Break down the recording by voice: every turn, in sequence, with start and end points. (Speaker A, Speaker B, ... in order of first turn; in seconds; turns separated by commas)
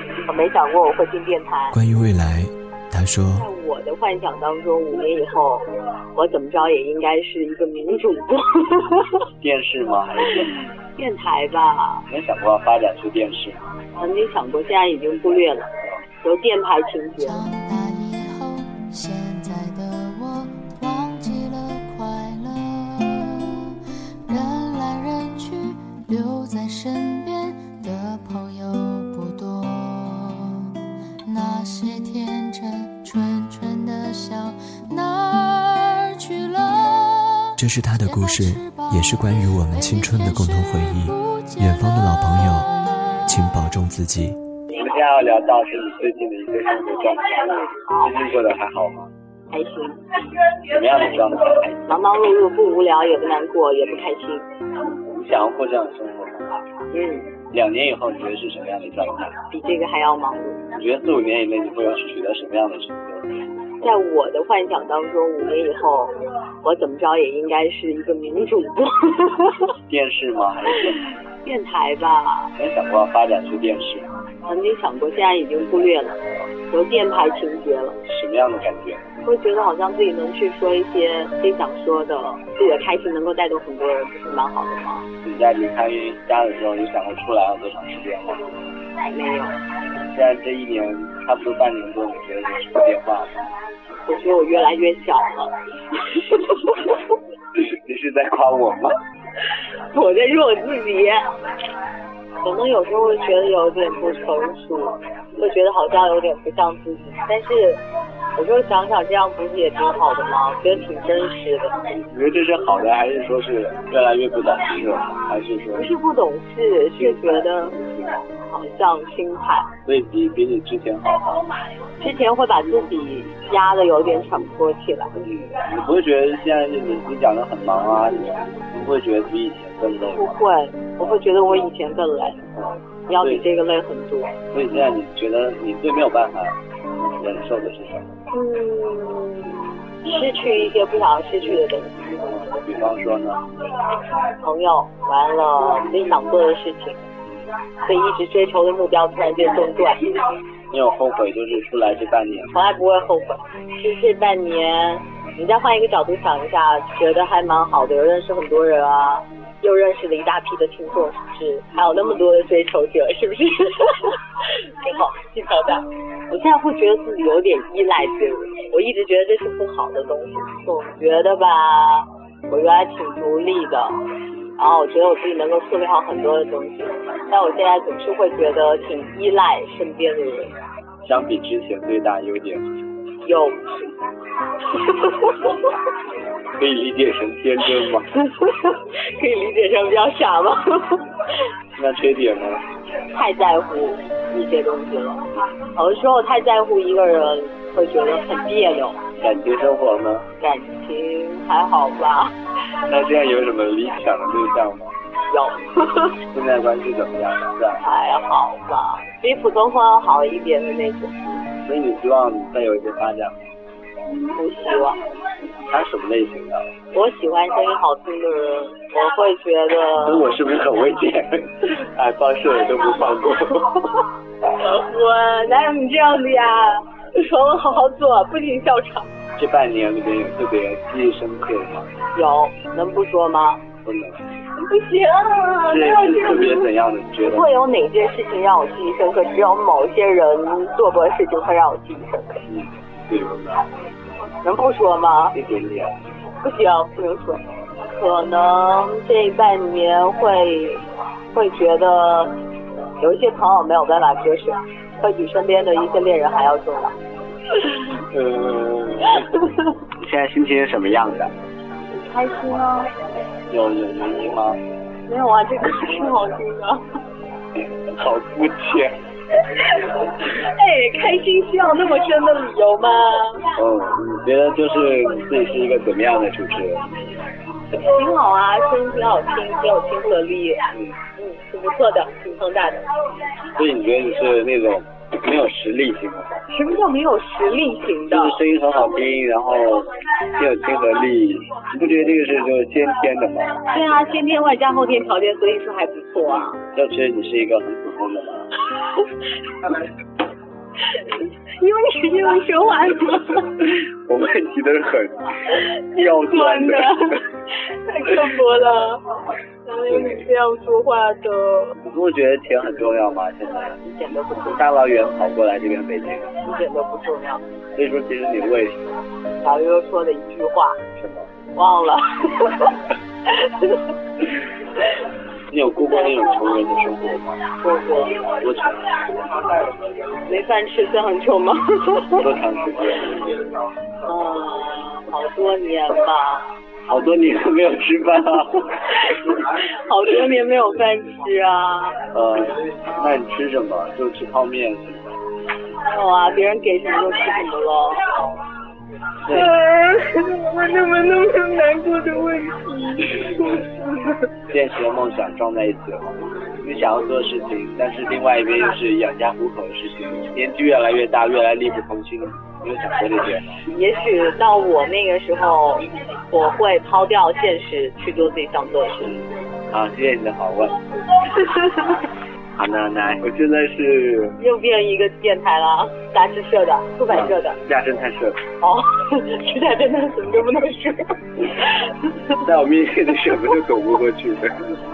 Speaker A: 0.2-1.8, Speaker B: 1.7-3.5, Speaker A: 3.3-9.2, Speaker C: 9.4-10.5, Speaker A: 11.0-12.0, Speaker C: 12.1-13.6, Speaker A: 14.0-15.7, Speaker A: 16.2-17.4, Speaker D: 17.2-23.8, Speaker D: 24.3-43.3, Speaker B: 37.6-42.7, Speaker B: 43.3-44.4, Speaker C: 44.8-49.1, Speaker A: 47.8-48.2, Speaker A: 49.5-50.2, Speaker C: 50.7-51.9, Speaker A: 51.9-54.4, Speaker C: 55.1-56.6, Speaker A: 56.9-57.4, Speaker C: 57.5-59.4, Speaker A: 59.5-60.6, Speaker C: 60.7-63.3, Speaker A: 63.8-69.7, Speaker C: 69.9-71.0, Speaker A: 71.4-72.5, Speaker C: 72.5-74.1, Speaker A: 74.5-76.2, Speaker A: 76.7-78.0, Speaker C: 78.1-79.1, Speaker A: 79.2-85.1, Speaker C: 85.2-88.5, Speaker A: 89.0-89.6, Speaker C: 90.1-93.5, Speaker A: 94.0-95.5, Speaker A: 96.1-96.9, Speaker C: 97.5-98.9, Speaker A: 99.9-101.2, Speaker A: 102.4-107.8, Speaker A: 108.3-111.8, Speaker C: 112.0-115.9, Speaker A: 115.7-117.8, Speaker C: 117.0-118.2, Speaker A: 118.3-119.7, Speaker C: 119.8-121.5, Speaker A: 122.0-125.1, Speaker C: 125.2-130.4, Speaker A: 130.1-132.4, Speaker C: 132.6-133.5, Speaker A: 133.1-134.3, Speaker C: 134.5-136.6, Speaker C: 137.2-138.1, Speaker A: 138.3-142.1, Speaker C: 142.2-143.4, Speaker A: 144.4-147.0, Speaker A: 147.8-150.2, Speaker C: 150.7-152.6, Speaker A: 152.5-164.2, Speaker A: 164.8-173.9, Speaker A: 174.6-180.6, Speaker C: 181.0-182.7, Speaker A: 183.2-183.8, Speaker A: 184.7-185.5, Speaker C: 186.6-188.1, Speaker A: 188.4-191.2, Speaker C: 191.8-192.6, Speaker A: 193.1-199.0, Speaker C: 199.2-200.2, Speaker A: 200.4-202.3, Speaker C: 202.9-204.9, Speaker A: 205.3-206.2, Speaker C: 206.3-207.8, Speaker A: 207.8-211.1, Speaker C: 211.2-213.4, Speaker A: 214.3-215.0, Speaker C: 215.7-216.7, Speaker A: 216.9-220.3, Speaker C: 220.1-223.9, Speaker A: 224.5-229.1, Speaker C: 229.4-231.9, Speaker A: 232.1-233.7, Speaker C: 233.8-234.3, Speaker A: 234.6-236.7, Speaker C: 235.7-237.5, Speaker A: 237.2-242.4, Speaker C: 242.5-243.7, Speaker A: 244.4-245.4, Speaker C: 245.3-246.0, Speaker A: 246.4-250.8, Speaker A: 251.3-252.3, Speaker A: 253.0-256.9, Speaker C: 258.1-259.2, Speaker C: 260.0-261.3, Speaker A: 262.0-262.9, Speaker C: 263.5-264.6, Speaker A: 265.1-266.8, Speaker C: 267.9-268.9, Speaker A: 269.6-273.5, Speaker C: 273.6-276.9, Speaker A: 277.7-282.9, Speaker C: 283.5-286.4, Speaker A: 286.5-288.4, Speaker C: 288.1-293.5, Speaker A: 293.6-296.6, Speaker C: 296.7-298.5, Speaker A: 301.4-303.7, Speaker C: 304.1-305.3, Speaker A: 305.7-309.0, Speaker C: 306.0-307.0, Speaker A: 309.6-311.7, Speaker C: 311.8-313.8, Speaker A: 313.8-314.8, Speaker C: 314.5-316.3, Speaker A: 316.4-317.4, Speaker C: 317.8-319.0, Speaker A: 319.4-320.8, Speaker C: 321.0-321.3, Speaker A: 321.5-323.8, Speaker C: 325.5-327.5, Speaker A: 325.9-326.5, Speaker A: 327.6-328.3, Speaker C: 328.3-328.9, Speaker A: 330.2-332.3, Speaker C: 332.2-333.3, Speaker A: 334.0-336.5, Speaker C: 336.9-338.7, Speaker A: 339.1-342.0, Speaker C: 342.1-345.2, Speaker A: 345.8-348.1, Speaker C: 349.2-349.5, Speaker A: 349.4-353.7, Speaker C: 354.5-363.5, Speaker A: 363.6-369.2, Speaker C: 369.7-370.7, Speaker C: 372.6-374.4, Speaker A: 374.4-377.6, Speaker C: 377.1-378.4, Speaker A: 378.6-382.3, Speaker C: 382.4-384.5